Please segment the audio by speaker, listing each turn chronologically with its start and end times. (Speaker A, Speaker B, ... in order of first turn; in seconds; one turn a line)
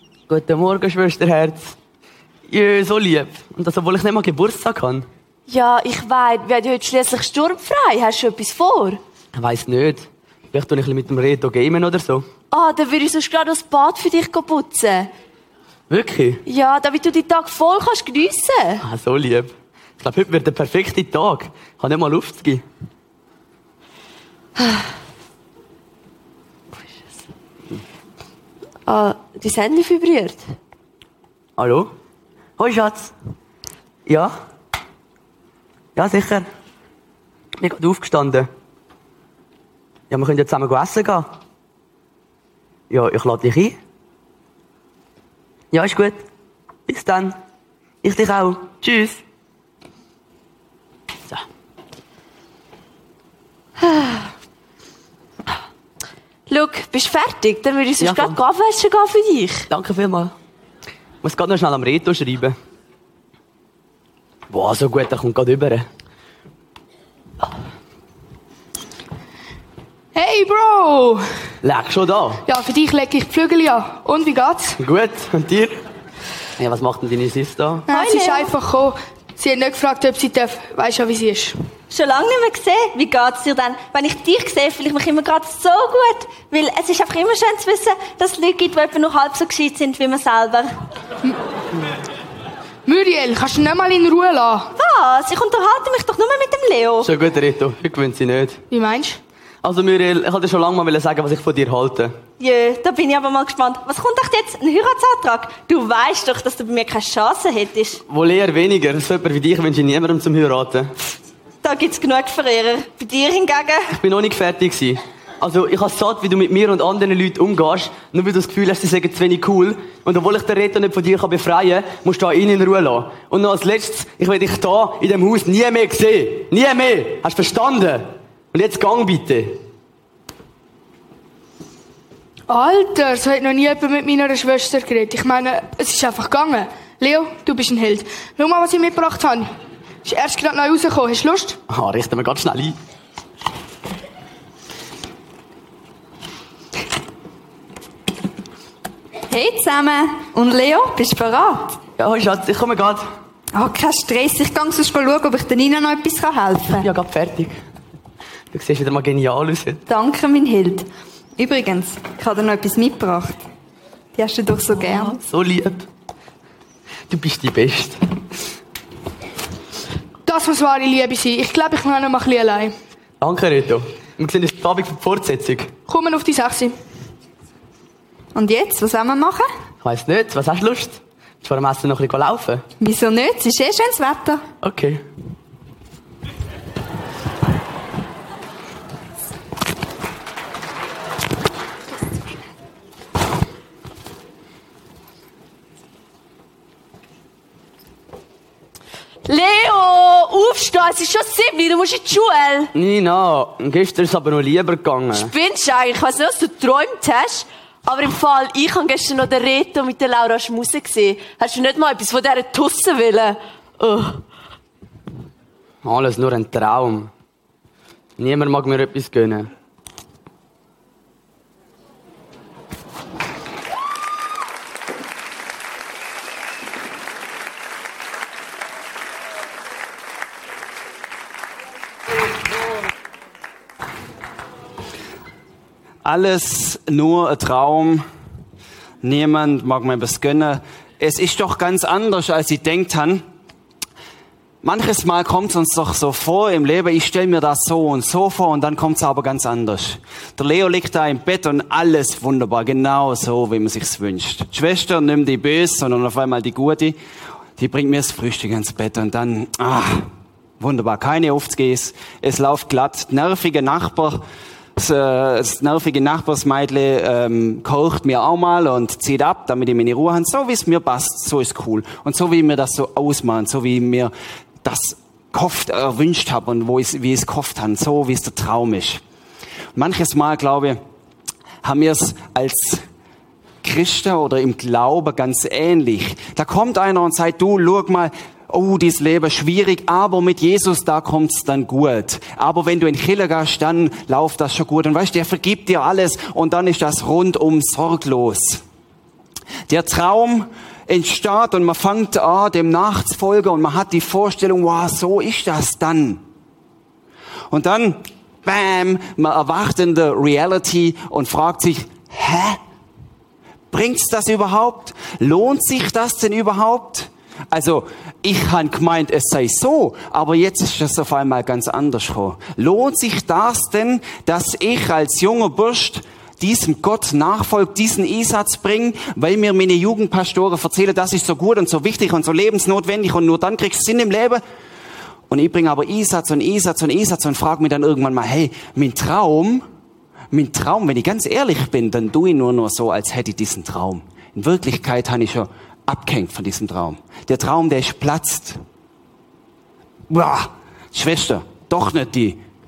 Speaker A: 0.3-1.7
Speaker A: 2.5-5.1
Speaker B: 5.5-9.0
Speaker A: 9.3-12.3
Speaker B: 12.5-15.1
Speaker A: 15.9-16.4
Speaker B: 16.4-18.8
Speaker A: 18.8-22.6
Speaker B: 24.6-24.8
Speaker B: 28.9-30.4
Speaker A: 31.6-31.9
Speaker A: 32.6-33.1
Speaker A: 34.0-34.3
Speaker A: 36.0-36.5
Speaker A: 37.6-38.5
Speaker A: 40.1-41.3
Speaker A: 42.9-43.8
Speaker A: 45.7-46.2
Speaker A: 46.9-47.4
Speaker A: 48.0-49.2
Speaker B: 53.8-54.1
Speaker B: 56.5-59.7
Speaker A: 58.0-58.4
Speaker A: 59.7-60.3
Speaker A: 61.2-62.5
Speaker A: 64.5-65.9
Speaker C: 70.1-71.2
Speaker A: 71.6-72.4
Speaker C: 72.5-74.8
Speaker A: 74.8-75.8
Speaker A: 76.6-77.8
Speaker C: 77.9-81.6
Speaker D: 77.9-78.5
Speaker D: 81.9-90.8
Speaker C: 92.8-94.7
Speaker D: 94.8-97.1
Speaker A: 97.0-98.6
Speaker C: 98.7-99.2
Speaker A: 99.6-102.2
Speaker D: 102.4-108.0
Speaker A: 108.1-110.9
Speaker D: 111.6-114.0
Speaker A: 114.0-129.6
Speaker C: 132.5-139.5
Speaker C: 140.0-141.6
Speaker A: 141.7-142.8
Speaker E: 149.3-151.7
Speaker A: 152.0-153.1
Speaker E: 153.5-156.8
Speaker A: 156.8-157.5
Speaker A: 158.5-159.8
Speaker E: 159.9-160.8
Speaker E: 161.4-163.3
Speaker E: 164.2-165.1
Speaker A: 164.8-165.8
Speaker A: 167.1-168.0
Speaker C: 170.2-172.7
Speaker A: 173.2-175.7
Speaker C: 175.9-176.8
Speaker E: 178.3-179.5
Speaker A: 179.8-182.7
Speaker E: 182.8-184.4
Speaker A: 184.6-185.0
Speaker B: 199.2-202.7
Speaker A: 202.7-205.3
Speaker B: 205.1-214.2
Speaker A: 215.8-217.1
Speaker A: 218.2-219.5
Speaker F: 236.0-238.0
Speaker F: 239.0-243.2
Speaker F: 244.6-257.0
Speaker F: 257.6-260.1
Speaker F: 260.6-264.2
Speaker F: 264.8-274.1
Speaker F: 274.6-279.0
Speaker F: 279.7-280.8
Speaker F: 281.6-282.8
Speaker F: 283.6-298.6
Speaker F: 299.7-306.2
Speaker F: 307.5-312.6
Speaker F: 313.7-334.4
Speaker F: 335.3-339.6
Speaker F: 340.3-348.6
Speaker F: 350.1-352.4